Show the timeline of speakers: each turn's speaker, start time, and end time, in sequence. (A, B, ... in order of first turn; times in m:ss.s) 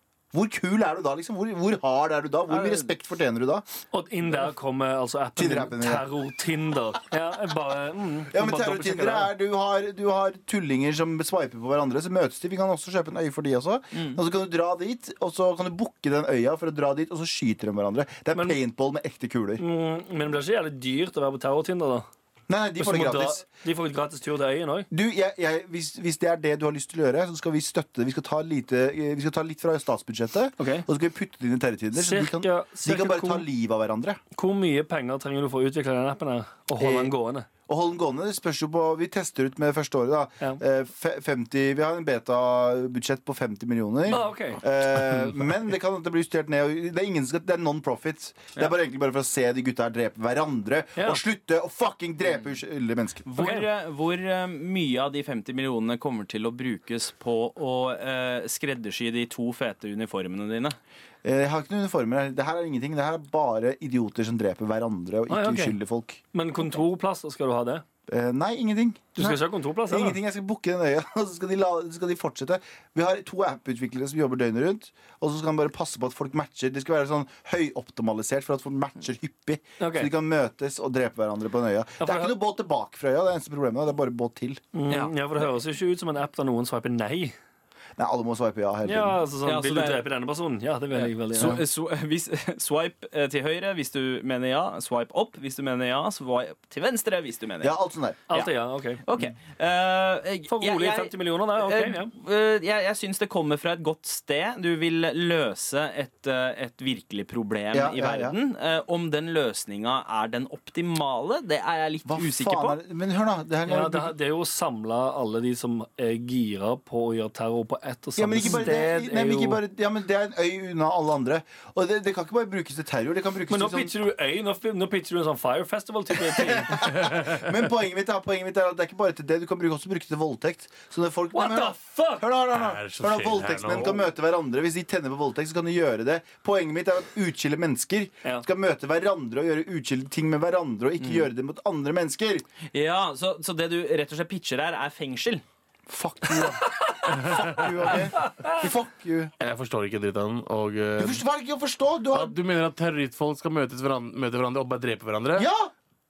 0:00.3-0:03.6 A
0:02.5-0:02.9 B
0:03.9-0:09.3 C
0:05.4-0:06.1 A
0:08.3-0:19.6 A
0:18.3-0:18.6 C
0:19.6-0:22.1 C
0:22.5-0:23.4 A
0:22.8-0:24.9 C
0:24.9-0:34.2 A
0:30.6-0:30.9 C
0:31.9-0:33.4 C
0:34.4-0:37.5 C
0:36.8-0:37.1 A
0:37.7-0:53.3 A
0:44.1-0:44.6 C
0:51.0-0:51.2 C
0:53.2-1:00.8 B
0:53.4-0:53.6 C
1:01.2-1:06.2 A
1:05.3-1:05.8 C
1:06.3-1:07.8 C
1:08.1-1:24.6 A
1:09.2-1:10.2 C
1:19.8-1:20.1 C
1:22.0-1:22.3 C
1:24.7-1:27.4 C
1:28.0-1:29.2 A
1:28.8-1:31.6 C
1:29.4-1:30.0 B
1:30.9-1:37.8 B
1:31.4-1:31.6 A
1:37.6-1:38.2 A
1:38.3-1:39.0 C
1:39.0-1:52.8 B
1:40.5-1:42.1 C
1:47.7-1:48.4 A
1:52.1-1:54.2 A
1:53.7-1:59.6 C
1:58.2-2:03.9 A
2:03.5-2:06.8 C
2:06.2-2:22.5 A
2:11.3-2:12.2 C
2:12.5-2:14.0 D
2:22.7-2:25.4 B
2:25.9-2:29.3 A
2:27.1-2:27.9 D
2:29.4-2:31.2 D
2:31.0-2:32.4 A
2:32.1-2:35.5 D
2:35.4-2:35.7 A